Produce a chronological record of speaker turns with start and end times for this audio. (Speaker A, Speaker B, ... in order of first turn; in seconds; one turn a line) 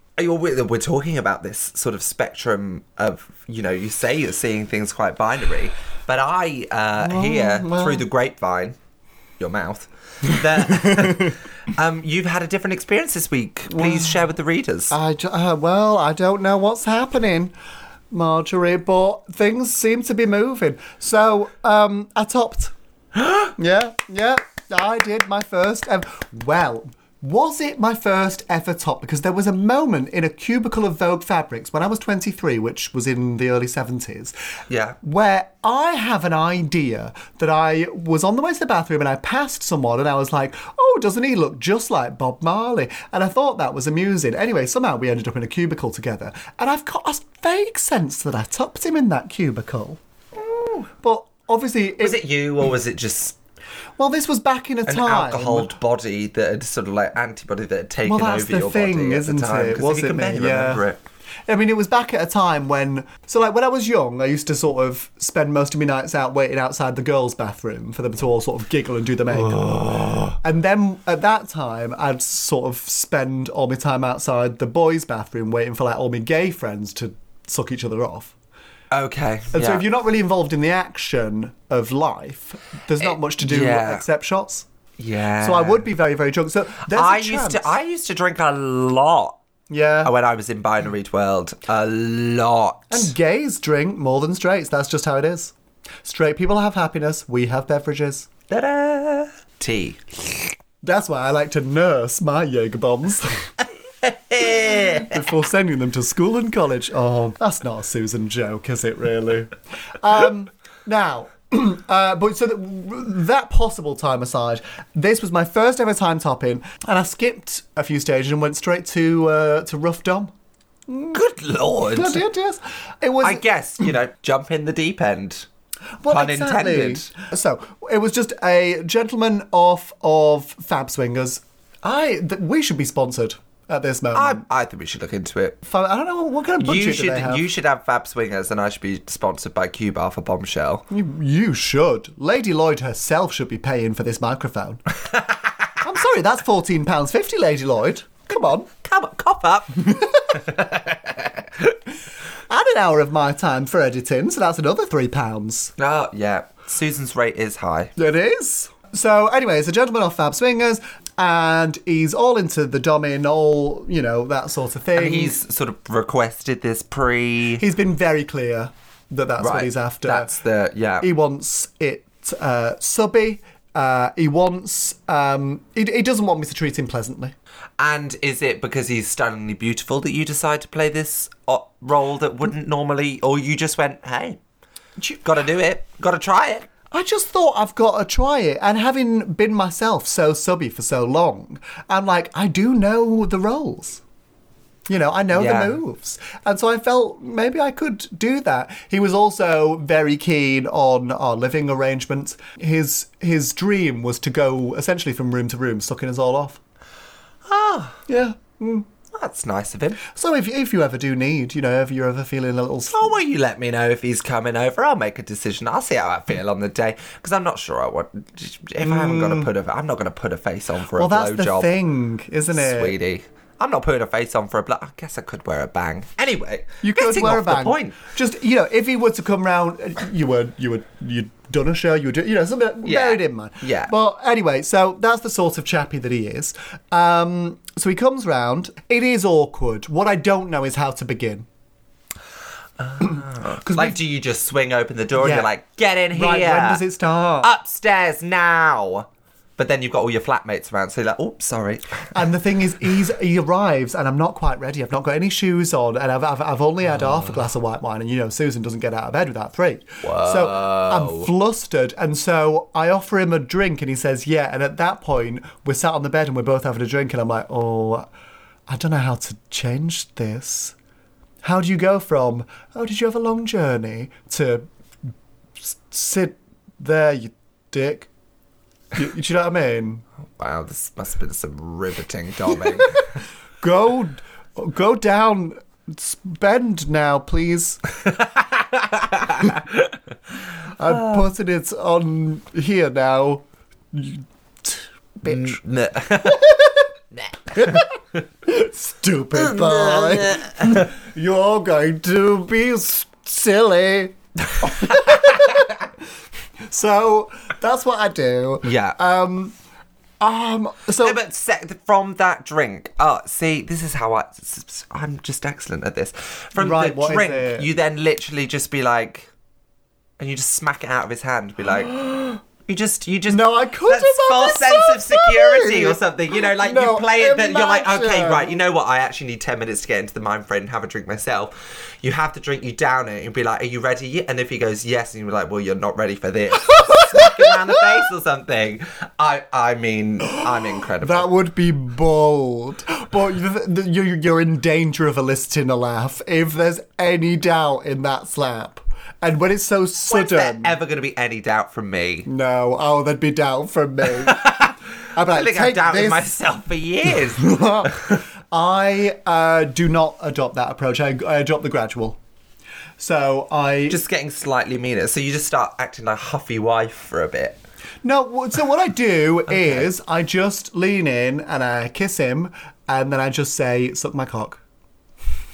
Speaker A: 0.2-8.8
Speaker B: 7.0-8.0
Speaker A: 9.4-14.9
Speaker B: 10.7-11.3
Speaker B: 13.7-14.2
Speaker B: 14.9-17.5
Speaker B: 18.1-22.7
Speaker B: 23.6-34.3
Speaker A: 34.7-35.0
Speaker B: 35.0-50.0
Speaker A: 50.4-50.9
Speaker B: 51.0-52.2
Speaker A: 52.0-53.4
Speaker B: 54.0-55.8
Speaker A: 54.9-61.0
Speaker B: 58.0-60.9
Speaker B: 61.5-69.7
Speaker A: 69.3-70.4
Speaker B: 70.4-78.3
Speaker A: 78.9-79.8
Speaker B: 79.5-84.7
Speaker A: 83.0-84.0
Speaker A: 85.0-85.9
Speaker B: 85.4-87.7
Speaker A: 86.9-89.4
Speaker B: 89.7-90.1
Speaker A: 90.0-93.1
Speaker B: 92.9-98.3
Speaker A: 98.5-100.3
Speaker B: 100.8-103.5
Speaker A: 104.0-105.2
Speaker B: 104.4-120.3
Speaker B: 120.9-121.2
Speaker A: 121.1-122.2
Speaker B: 121.8-123.4
Speaker A: 123.2-125.5
Speaker B: 126.0-134.4
Speaker A: 126.1-127.1
Speaker A: 134.2-135.6
Speaker B: 135.6-137.4
Speaker A: 136.6-140.9
Speaker B: 140.9-144.8
Speaker A: 145.1-145.5
Speaker B: 145.8-148.7
Speaker A: 148.7-151.5
Speaker B: 149.8-150.5
Speaker B: 152.5-155.7
Speaker A: 155.8-157.9
Speaker B: 158.0-165.4
Speaker A: 164.9-167.6
Speaker B: 167.6-170.4
Speaker A: 169.4-171.1
Speaker B: 171.0-177.3
Speaker A: 177.8-184.4
Speaker A: 185.2-186.7
Speaker B: 186.9-194.0
Speaker B: 194.9-206.6
Speaker A: 195.3-195.8
Speaker A: 207.4-208.0
Speaker B: 208.1-208.9
Speaker A: 209.1-210.0
Speaker B: 210.0-213.1
Speaker A: 212.9-221.7
Speaker B: 218.8-219.5
Speaker B: 221.0-222.9
Speaker A: 222.5-228.0
Speaker B: 226.8-241.5
Speaker A: 232.8-233.9
Speaker A: 242.8-246.8
Speaker B: 243.0-244.0
Speaker B: 245.2-245.5
Speaker B: 246.1-247.5
Speaker A: 247.4-252.2
Speaker B: 252.1-268.1
Speaker A: 257.0-257.4
Speaker A: 260.0-261.3
Speaker B: 268.7-270.8
Speaker B: 271.4-274.7
Speaker B: 275.6-278.1
Speaker B: 278.9-280.0
Speaker A: 280.4-283.0
Speaker B: 282.5-283.1
Speaker B: 283.6-287.8
Speaker A: 288.2-289.9
Speaker B: 290.7-295.6
Speaker A: 290.9-291.2
Speaker A: 295.2-296.5
Speaker B: 296.2-296.9
Speaker A: 297.2-297.9
Speaker B: 297.5-305.9
Speaker A: 299.3-300.9
Speaker A: 304.8-305.3
Speaker B: 306.7-309.5
Speaker A: 308.6-309.0
Speaker B: 310.2-311.2
Speaker A: 311.0-319.3
Speaker B: 316.6-317.7
Speaker A: 320.2-322.0
Speaker B: 321.9-322.4
Speaker A: 322.6-341.3
Speaker B: 323.3-328.5
Speaker B: 336.6-337.9
Speaker B: 341.0-350.8
Speaker A: 350.1-352.3
Speaker B: 352.3-356.3
Speaker A: 354.0-358.2
Speaker B: 357.1-362.2
Speaker B: 363.0-364.0
Speaker A: 363.9-367.6
Speaker B: 368.0-374.6